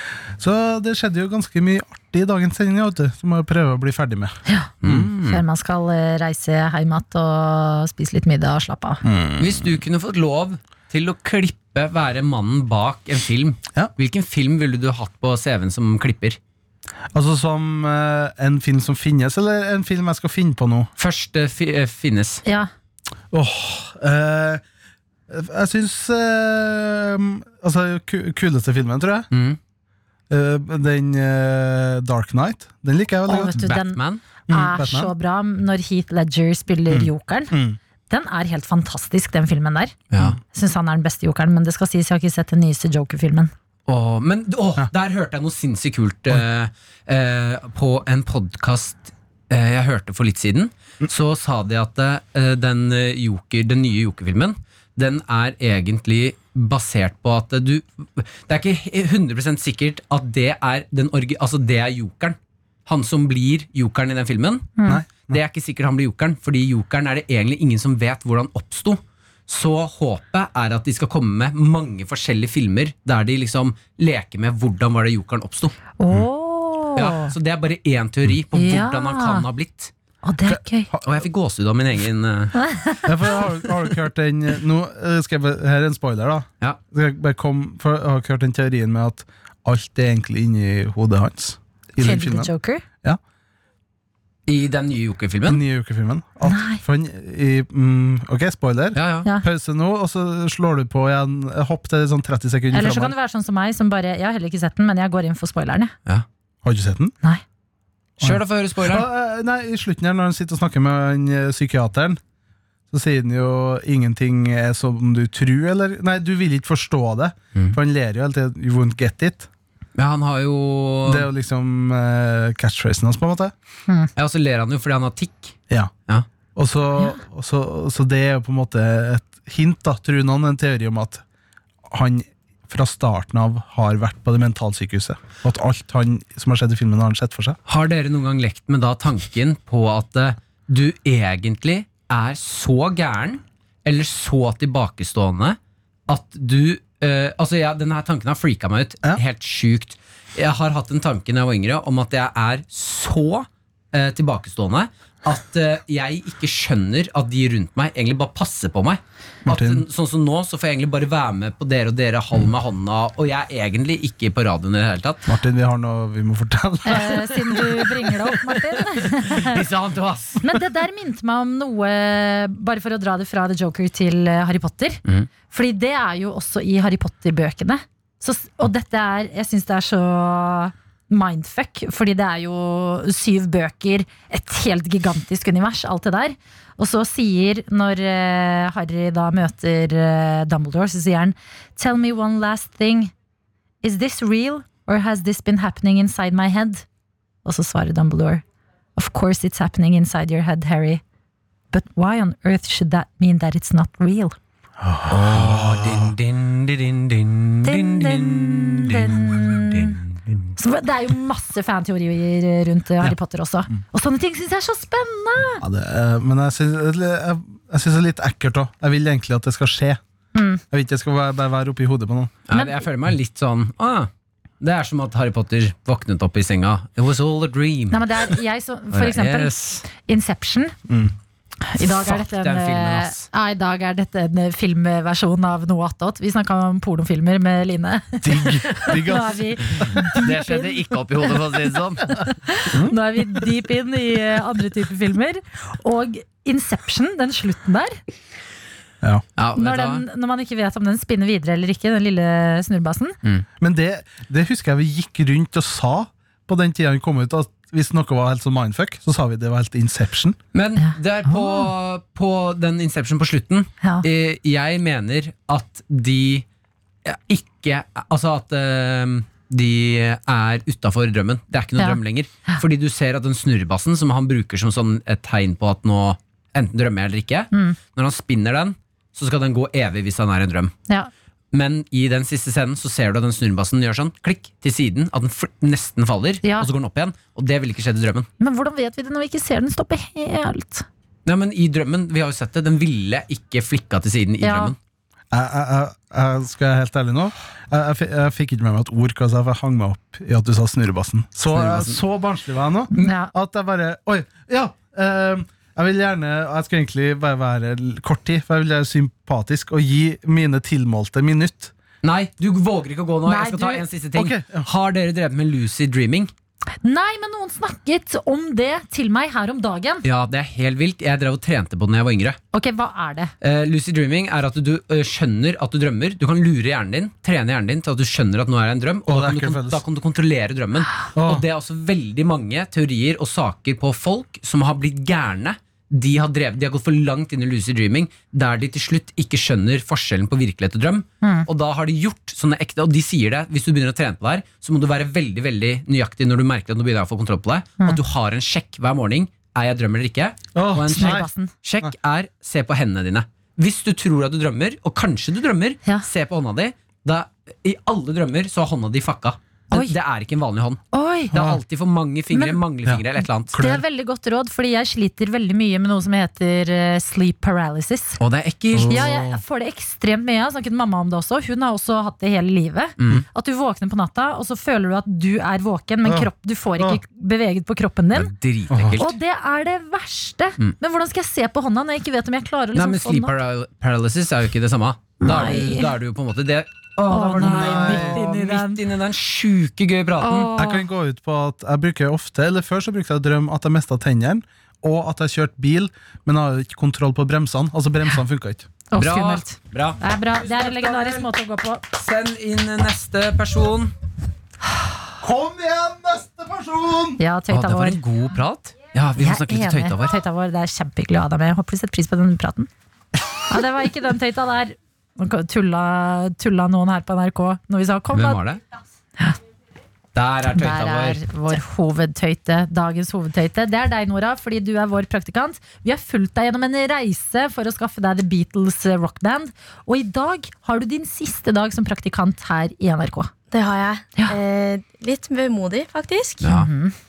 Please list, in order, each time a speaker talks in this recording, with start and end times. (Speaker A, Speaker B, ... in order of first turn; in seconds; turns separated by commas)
Speaker A: 0.4-5.1, Speaker B: 4.8-5.4, Speaker C: 5.2-9.0, Speaker A: 9.0-9.6, Speaker B: 9.4-16.4, Speaker A: 17.1-20.9, Speaker B: 21.0-22.4, Speaker A: 23.3-24.6, Speaker A: 25.3-29.3, Speaker B: 29.3-29.6, Speaker A: 30.3-33.6, Speaker C: 33.3-37.5, Speaker B: 33.5-34.2, Speaker A: 34.5-35.1, Speaker A: 36.9-37.8, Speaker C: 38.1-40.0, Speaker B: 40.1-40.4, Speaker C: 40.5-43.5, Speaker B: 43.9-75.7, Speaker A: 64.9-65.4, Speaker C: 76.0-77.3, Speaker B: 77.0-79.9, Speaker C: 78.5-79.5, Speaker C: 80.2-80.9, Speaker A: 80.5-81.2, Speaker B: 81.0-82.6, Speaker C: 82.6-83.1, Speaker A: 83.0-92.5, Speaker C: 92.0-92.8, Speaker B: 94.5-95.6, Speaker A: 95.5-103.1, Speaker C: 96.5-96.8, Speaker B: 98.9-99.3, Speaker C: 102.7-105.9, Speaker A: 106.6-107.1, Speaker B: 108.2-109.0, Speaker A: 108.2-112.2, Speaker A: 112.9-119.5, Speaker B: 120.0-121.3, Speaker A: 121.1-123.5, Speaker B: 124.2-126.2, Speaker A: 126.5-131.2, Speaker A: 131.9-137.6, Speaker B: 137.7-165.3, Speaker A: 159.5-159.8, Speaker A: 165.3-167.8, Speaker C: 166.9-169.6, Speaker B: 169.4-170.6, Speaker C: 170.4-193.1, Speaker B: 175.0-175.3, Speaker C: 193.8-196.8, Speaker C: 197.4-198.4, Speaker C: 199.0-201.0, Speaker C: 201.7-204.4, Speaker A: 204.8-206.1, Speaker B: 205.1-210.5, Speaker C: 207.6-210.0, Speaker C: 210.6-215.6, Speaker A: 215.6-220.0, Speaker C: 220.3-220.6, Speaker A: 220.7-222.4, Speaker B: 222.5-224.1, Speaker C: 222.5-222.9, Speaker B: 224.6-228.3, Speaker C: 227.9-230.8, Speaker B: 228.9-229.8, Speaker A: 230.9-231.1, Speaker C: 231.7-241.5, Speaker B: 231.8-233.3, Speaker A: 238.2-239.9, Speaker B: 240.1-242.2, Speaker C: 242.1-248.0, Speaker B: 249.4-250.0, Speaker C: 249.5-253.2, Speaker A: 253.6-260.4, Speaker B: 260.5-266.4, Speaker C: 260.8-261.7, Speaker B: 267.0-280.7, Speaker C: 271.8-272.6, Speaker B: 281.5-288.3, Speaker C: 286.4-286.7, Speaker C: 288.4-290.9, Speaker B: 291.2-294.8, Speaker C: 294.4-294.7, Speaker A: 295.3-311.7, Speaker B: 301.5-302.0, Speaker C: 302.9-303.3, Speaker B: 312.0-316.3, Speaker C: 313.2-313.9, Speaker A: 314.1-314.7, Speaker C: 316.8-320.1, Speaker B: 320.0-322.4, Speaker C: 322.5-323.3, Speaker B: 323.4-360.8, Speaker A: 329.1-329.8, Speaker A: 331.1-331.4, Speaker C: 341.2-341.5, Speaker A: 350.5-351.3, Speaker C: 350.9-351.5, Speaker C: 360.9-361.4, Speaker A: 361.3-361.6, Speaker B: 361.3-363.6, Speaker C: 362.3-362.6, Speaker A: 362.9-363.8, Speaker C: 363.5-368.2, Speaker B: 368.2-369.1, Speaker C: 368.7-378.3, Speaker A: 368.7-369.4, Speaker B: 373.0-373.2, Speaker A: 376.0-377.0, Speaker B: 378.1-379.1, Speaker A: 378.7-379.1, Speaker C: 379.0-383.3, Speaker B: 382.8-390.5, Speaker C: 385.2-385.9, Speaker C: 387.1-388.8, Speaker A: 387.4-388.2, Speaker C: 390.2-390.9, Speaker A: 390.6-398.7, Speaker C: 398.9-401.8, Speaker B: 399.0-401.3, Speaker B: 401.9-403.9, Speaker A: 405.2-407.2, Speaker C: 407.2-408.0, Speaker B: 407.5-410.1, Speaker C: 409.2-412.7, Speaker C: 413.5-418.4, Speaker B: 418.1-418.6, Speaker B: 420.1-421.2, Speaker C: 420.5-433.3, Speaker D: 433.5-436.4, Speaker B: 436.4-436.7, Speaker C: 436.4-436.9